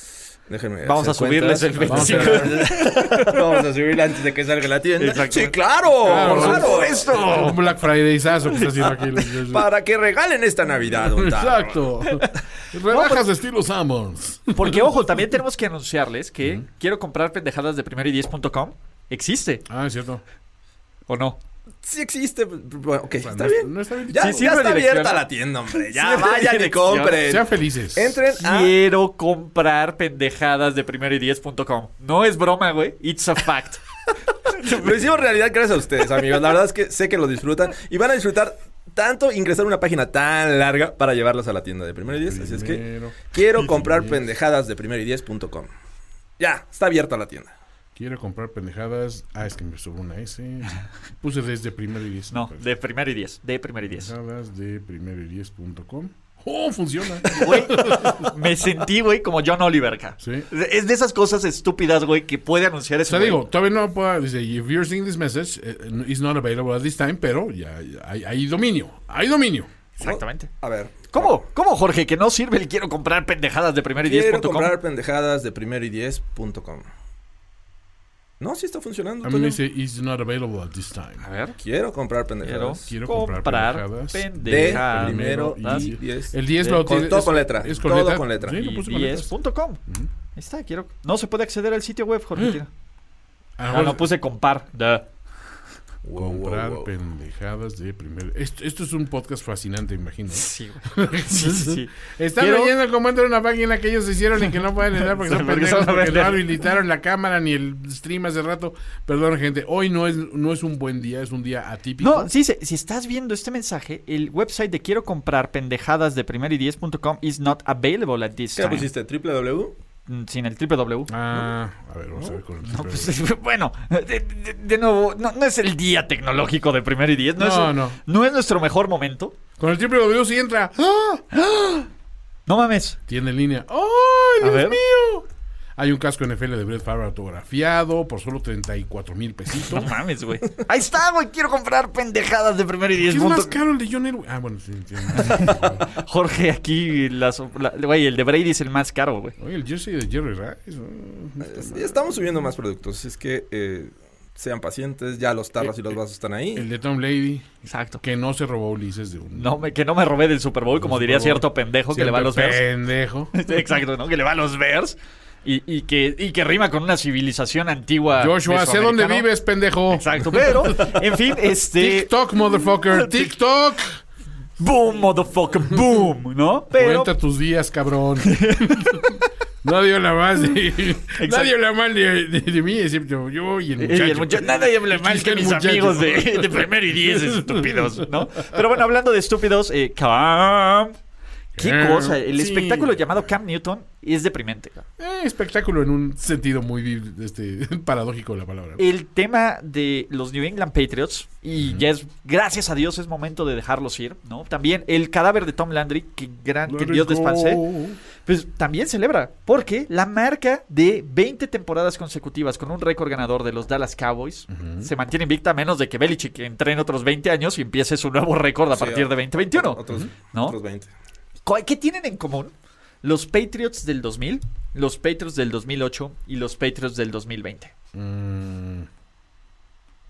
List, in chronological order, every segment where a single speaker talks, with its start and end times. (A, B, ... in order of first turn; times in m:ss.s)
0:00.5-0:07.5 A
0:00.8-0:03.4 B
0:01.8-0:02.7 C
0:05.0-0:07.6 B
0:06.0-0:09.7 C
0:08.5-0:08.9 B
0:09.5-0:11.8 A
0:11.0-0:15.0 C
0:12.9-0:13.2 B
0:14.5-0:19.6 B
0:19.7-0:20.2 C
0:21.1-0:21.4 B
0:21.8-0:28.8 A
0:23.2-0:24.5 C
0:24.1-0:27.2 B
0:27.2-0:28.2 C
0:28.3-0:33.8 B
0:34.6-0:34.8 B
0:34.6-0:45.7 A
0:42.1-0:44.2 C
0:46.4-0:47.5 A
0:48.0-0:52.6 C
0:52.3-0:54.1 B
0:53.9-0:58.3 C
0:57.3-1:03.4 B
1:00.2-1:00.5 C
1:03.1-1:09.7 C
1:10.0-1:10.5 B
1:10.0-1:11.4 A
1:11.1-1:14.7 B
1:14.0-1:16.8 A
1:18.4-1:19.6 A
1:19.2-1:21.2 C
1:21.2-1:21.6 B
1:21.6-1:22.9 A
1:22.4-1:25.9 B
1:22.8-1:29.3 C
1:24.4-1:28.6 A
1:28.5-1:29.8 B
1:30.4-1:32.7 B
1:33.6-1:34.1 C
1:33.7-1:35.1 B
1:36.0-1:36.9 A
1:36.2-1:52.3 C
1:40.3-1:42.7 B
1:45.0-1:46.4 B
1:52.0-1:58.8 B
1:58.6-1:59.7 A
2:00.1-2:01.1 B
2:01.1-2:03.1 C
2:02.7-2:09.3 B
2:07.4-2:08.0 C
2:09.6-2:11.2 C
2:11.3-2:11.8 B
2:12.5-2:13.0 B
2:13.1-2:19.9 C
2:14.4-2:14.8 B
2:19.6-2:23.6 B
2:23.0-2:25.9 C
2:25.2-2:29.3 B
2:29.4-2:32.0 C
2:31.4-2:36.7 A
2:36.5-2:39.7 C
2:37.6-2:38.0 B
2:39.3-2:42.7 B
2:40.8-2:43.5 C
2:43.3-2:49.3 B
2:48.1-2:51.2 C
2:49.9-2:52.1 B
2:51.7-2:54.0 C
2:52.9-2:53.3 B
2:54.6-2:57.1 B
2:56.7-3:08.1 C
2:58.2-2:59.2 B
3:01.2-3:01.5 B
3:03.8-3:10.9 B
3:11.5-3:13.0 C
3:11.6-3:14.8 B
3:15.0-3:18.8 C
3:18.8-3:27.7 B
3:21.6-3:21.8 C
3:26.7-3:28.0 C
3:28.2-3:39.8 B
3:34.5-3:34.9 C
3:38.7-3:40.9 A
3:41.4-3:47.7 B
3:47.9-3:48.9 C